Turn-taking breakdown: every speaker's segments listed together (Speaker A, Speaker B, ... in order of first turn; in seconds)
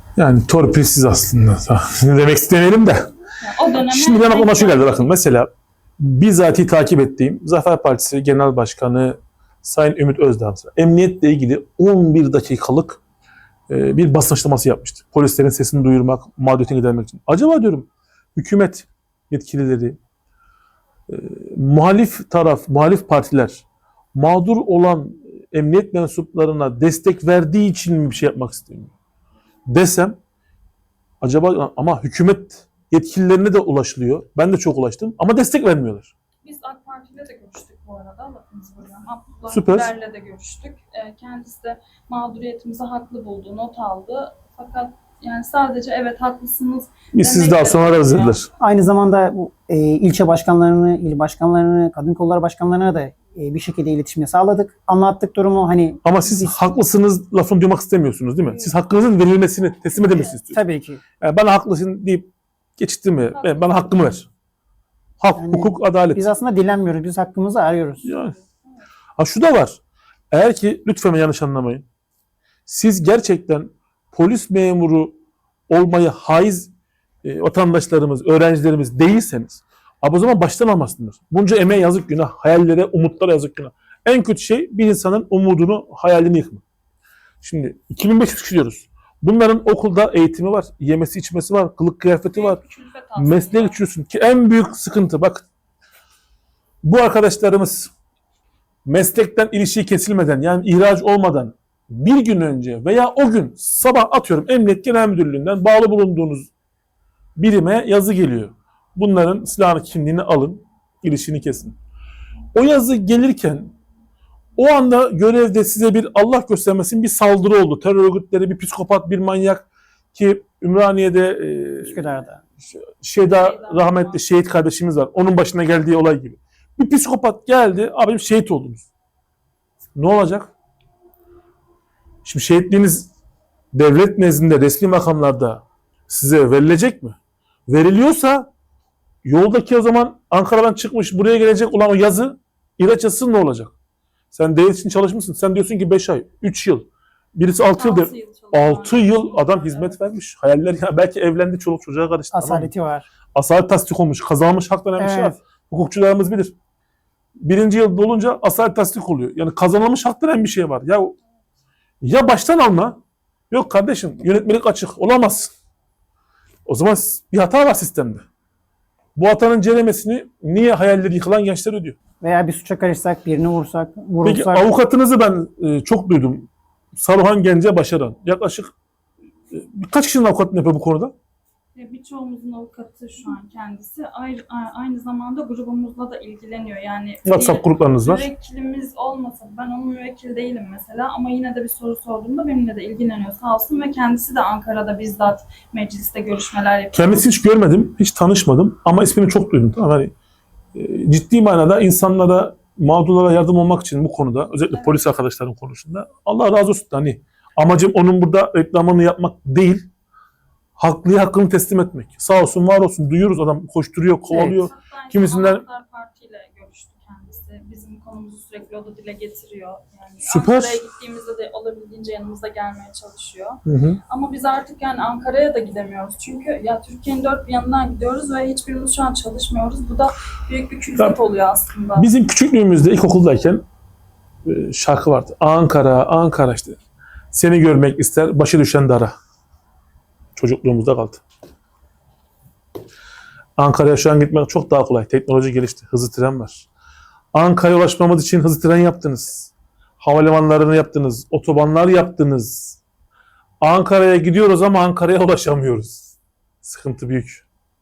Speaker A: 0.2-3.1, 3.9-13.0, 13.7-20.0, 21.1-28.9, 29.7-30.2, 31.2-36.1, 39.5-39.9, 47.1-48.5, 56.0-60.6, 61.2-64.3, 65.2-66.2, 68.0-68.3, 69.2-69.8, 70.3-71.8, 72.7-75.2, 75.7-76.7, 77.2-86.6, 87.4-92.6, 93.2-95.5, 96.8-97.9, 98.9-106.5, 107.4-111.8, 112.5-113.7, 114.6-128.9, 130.0-130.5, 132.2-133.1, 133.7-137.2, 137.7-138.5, 139.2-143.7, 144.3-152.7, 153.3-156.5, 157.4-161.2, 162.0-163.0, 163.5-165.5, 166.7-168.2, 169.2-172.0, 174.2-178.7, 179.5-181.1, 187.3-188.3, 196.9-200.1, 200.8-209.9, 210.8-215.6, 220.2-220.8, 223.7-224.0, 232.0-233.6, 234.4-236.8, 237.3-239.2, 240.4-241.2, 243.6-246.7, 247.3-252.8, 253.6-257.4
Speaker B: 3.4-5.1, 36.4-48.4, 60.0-60.4, 63.4-63.8, 92.3-93.8, 123.2-124.2, 147.7-150.0, 181.8-197.2, 204.7-205.0, 214.4-232.1
Speaker C: 48.6-56.5, 60.5-61.0, 65.4-68.0, 121.8-122.4, 152.3-153.1, 155.0-155.4, 172.2-174.7, 214.3-214.6